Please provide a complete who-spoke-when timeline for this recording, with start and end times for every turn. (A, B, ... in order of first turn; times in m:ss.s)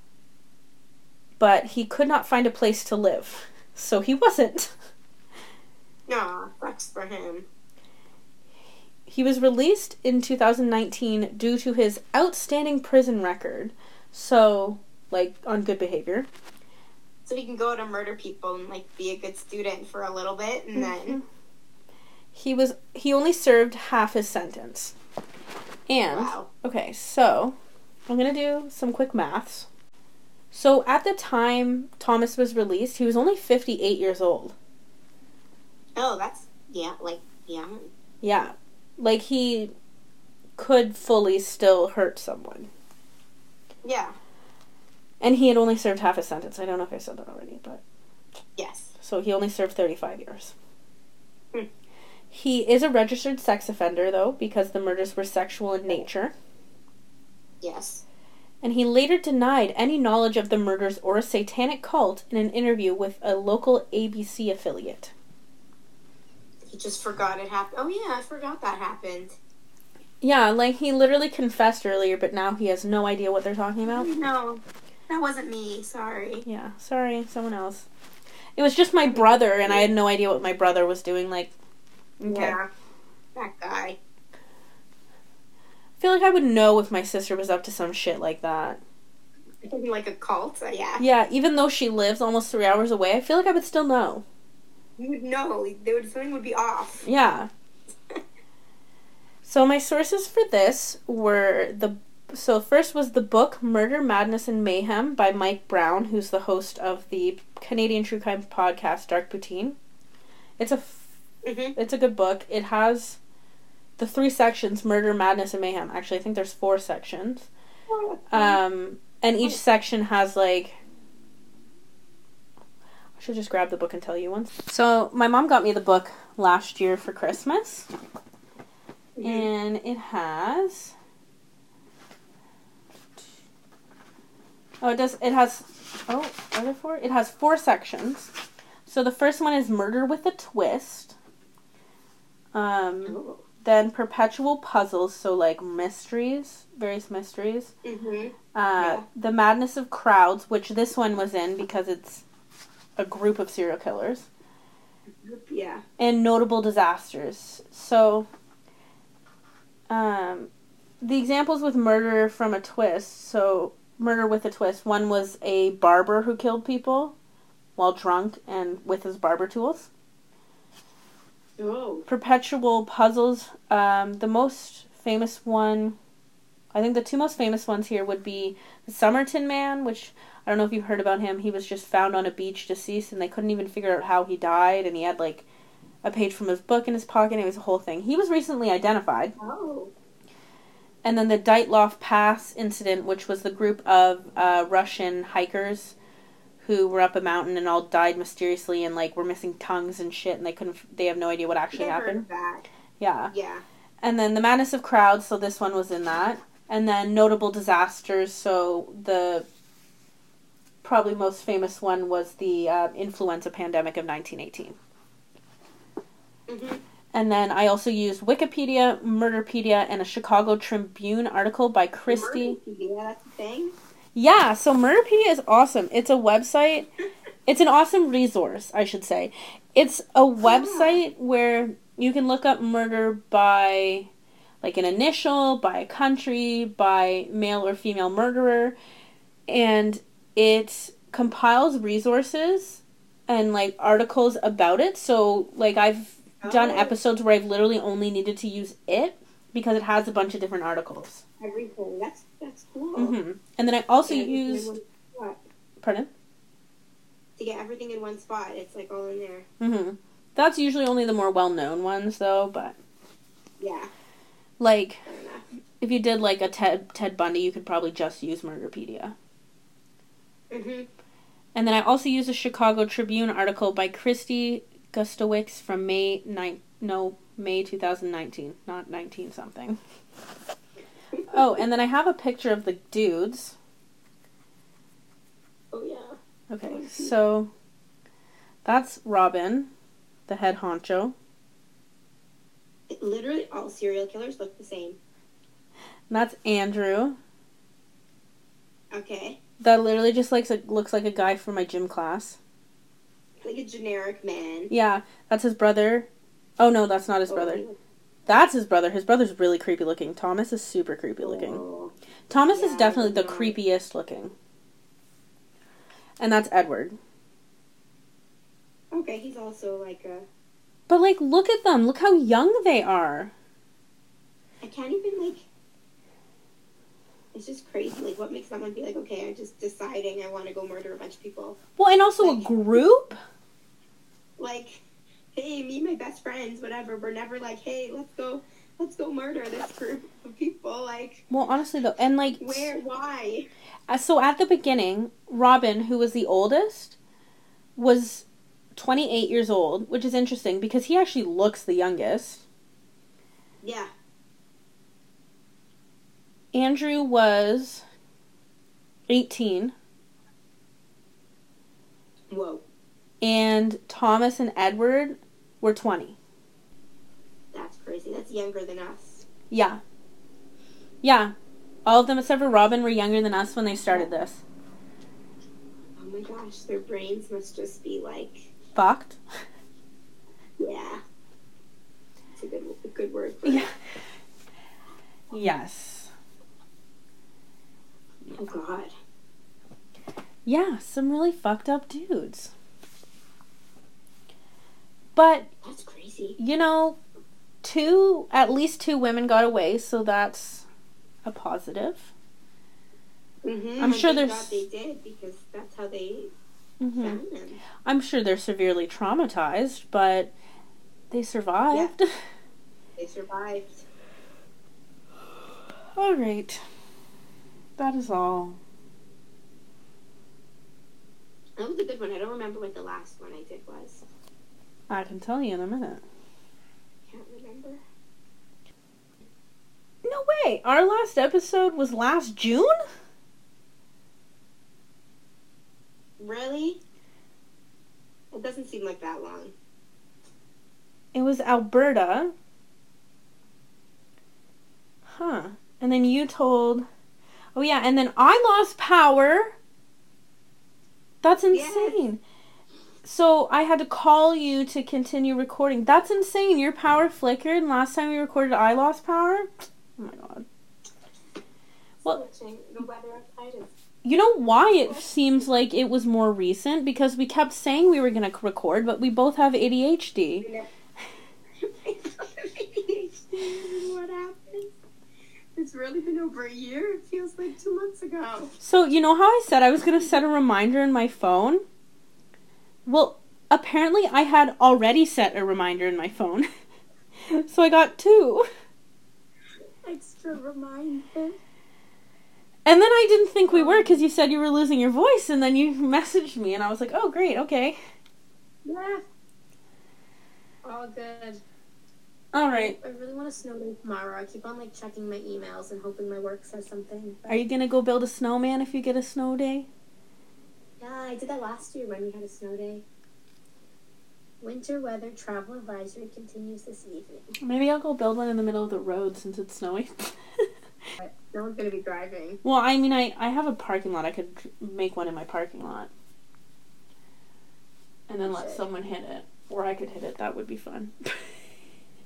0:01.4-0:04.7 A
0:06.1-0:07.4 B
0:09.1-0:16.3 A
0:17.3-0:21.2 B
0:20.7-0:21.2 A
0:22.3-0:24.9 A
0:25.9-0:27.6 A
0:26.1-0:26.5 B
0:28.1-0:29.7 A
0:30.5-0:34.6 A
0:36.0-0:37.9 B
0:38.2-0:39.7 A
0:40.6-0:42.7 A
0:43.8-0:44.1 B
0:45.2-0:47.8 A
0:48.6-0:48.9 B
0:49.0-0:50.6 A
0:52.3-0:56.3 A
0:57.6-0:58.0 B
0:58.6-1:05.1 A
1:06.7-1:09.4 B
1:10.2-1:14.1 A
1:13.9-1:16.4 B
1:16.4-1:17.9 A
1:18.6-1:21.5 A
1:19.1-1:19.9 B
1:22.2-1:22.6 A
1:22.3-1:22.6 B
1:23.4-1:24.0 B
1:26.0-1:28.8 A
1:29.6-1:31.0 B
1:31.0-1:34.2 A
1:35.0-1:37.1 B
1:37.0-1:37.5 A
1:39.4-1:49.8 A
1:50.6-1:51.1 A
1:51.4-1:51.7 B
1:51.7-1:53.2 A
1:54.0-1:57.5 A
1:57.9-1:58.6 B
1:58.3-2:00.8 A
2:03.2-2:07.9 A
2:09.2-2:09.5 B
2:09.2-2:10.9 A
2:14.8-2:18.3 A
2:18.9-2:21.1 A
2:22.5-2:27.7 A
2:23.1-2:23.4 B
2:27.8-2:29.0 B
2:28.5-2:32.2 A
2:33.0-2:34.3 A
2:35.2-2:35.8 B
2:36.0-2:38.3 A
2:39.9-2:40.5 A
2:41.0-2:47.1 A
2:47.8-2:49.9 A
2:51.6-2:52.1 B
2:52.1-2:56.0 A
2:56.7-3:05.4 A
3:06.0-3:09.3 A
3:09.4-3:09.9 B
3:11.0-3:16.0 A
3:16.6-3:22.3 A
3:21.7-3:22.6 B
3:23.0-3:23.3 A
3:23.3-3:23.6 B
3:24.0-3:29.5 A
3:30.8-3:34.8 A
3:36.5-3:36.8 B
3:37.1-3:42.6 A
3:42.1-3:43.7 B
3:44.1-3:46.9 A
3:47.4-3:54.1 A
3:50.4-3:51.0 B
3:54.6-3:58.7 A
3:59.5-4:11.2 A
4:06.4-4:07.0 B
4:11.4-4:13.2 B
4:13.0-4:14.7 A
4:14.1-4:15.4 B
4:15.8-4:16.1 A
4:17.4-4:19.5 B
4:19.6-4:22.8 A
4:23.6-4:23.9 B
4:24.6-4:25.1 A
4:25.1-4:25.4 B
4:25.8-4:29.1 A
4:30.5-4:30.9 B
4:31.6-4:39.8 A
4:41.3-4:43.6 A
4:45.7-4:47.1 B
4:46.5-4:47.5 A
4:48.6-4:49.7 A
4:50.3-4:51.1 A
4:52.9-4:55.0 B
4:56.1-4:57.2 A
4:58.9-4:59.4 B
4:59.6-5:02.4 A
5:03.4-5:04.7 B
5:04.7-5:06.1 A
5:06.6-5:07.6 A
5:07.3-5:07.8 B
5:08.3-5:11.6 A
5:11.2-5:11.9 B
5:12.3-5:14.3 A
5:12.5-5:13.6 B
5:16.2-5:17.0 A
5:18.9-5:20.3 B
5:20.9-5:23.3 A
5:24.6-5:25.4 B
5:27.3-5:31.6 B
5:31.8-5:33.2 A
5:32.2-5:32.8 B
5:34.4-5:34.8 B
5:35.3-5:41.2 B
5:41.3-5:42.7 A
5:42.4-5:43.5 B
5:43.9-5:47.0 A
5:47.8-5:52.4 A
5:53.6-5:53.9 B
5:56.5-5:57.8 A
5:59.1-5:59.7 A
6:02.3-6:02.6 B
6:03.2-6:06.2 A
6:07.5-6:09.3 B
6:09.5-6:09.8 A
6:11.0-6:11.3 A
6:11.9-6:14.4 A
6:16.0-6:18.5 B
6:18.7-6:19.2 A
6:20.6-6:21.0 B
6:22.4-6:23.7 B
6:23.4-6:23.7 A
6:25.3-6:26.1 A
6:28.4-6:28.9 B
6:30.4-6:32.5 A
6:35.2-6:35.5 A
6:35.6-6:36.4 B
6:36.4-6:37.0 A
6:37.6-6:40.7 A
6:41.2-6:42.1 A
6:43.4-6:46.3 B
6:43.8-6:44.6 A
6:46.8-6:47.2 A
6:47.0-6:47.6 B
6:47.8-6:50.3 A
6:51.1-6:52.1 A
6:53.0-6:53.8 B
6:56.0-6:56.6 A
6:57.8-6:58.6 A
7:01.6-7:04.0 B
7:04.9-7:06.0 A
7:07.1-7:07.8 B
7:10.0-7:12.7 A
7:16.2-7:16.8 B
7:18.3-7:19.5 B
7:21.1-7:22.3 A
7:25.1-7:26.9 A
7:27.6-7:29.6 A
7:31.2-7:32.2 A
7:31.5-7:32.0 B
7:33.0-7:40.4 A
7:42.0-7:43.7 B
7:44.0-7:50.5 A
7:44.8-7:45.1 B
7:50.4-7:50.7 B
7:51.6-7:54.7 B
7:55.6-7:58.6 B
7:58.6-8:01.6 A
8:02.9-8:06.5 A
8:07.3-8:08.4 A
8:09.8-8:11.4 B
8:12.7-8:17.8 A
8:13.5-8:14.0 B
8:18.6-8:19.0 B
8:20.6-8:21.4 B
8:22.3-8:22.8 A
8:22.5-8:27.4 B
8:27.3-8:29.7 A
8:30.8-8:32.8 B
8:34.4-8:37.3 B
8:37.4-8:40.1 A
8:41.0-8:42.4 B
8:42.4-8:45.9 A
8:48.1-8:50.9 A
8:48.2-8:48.6 B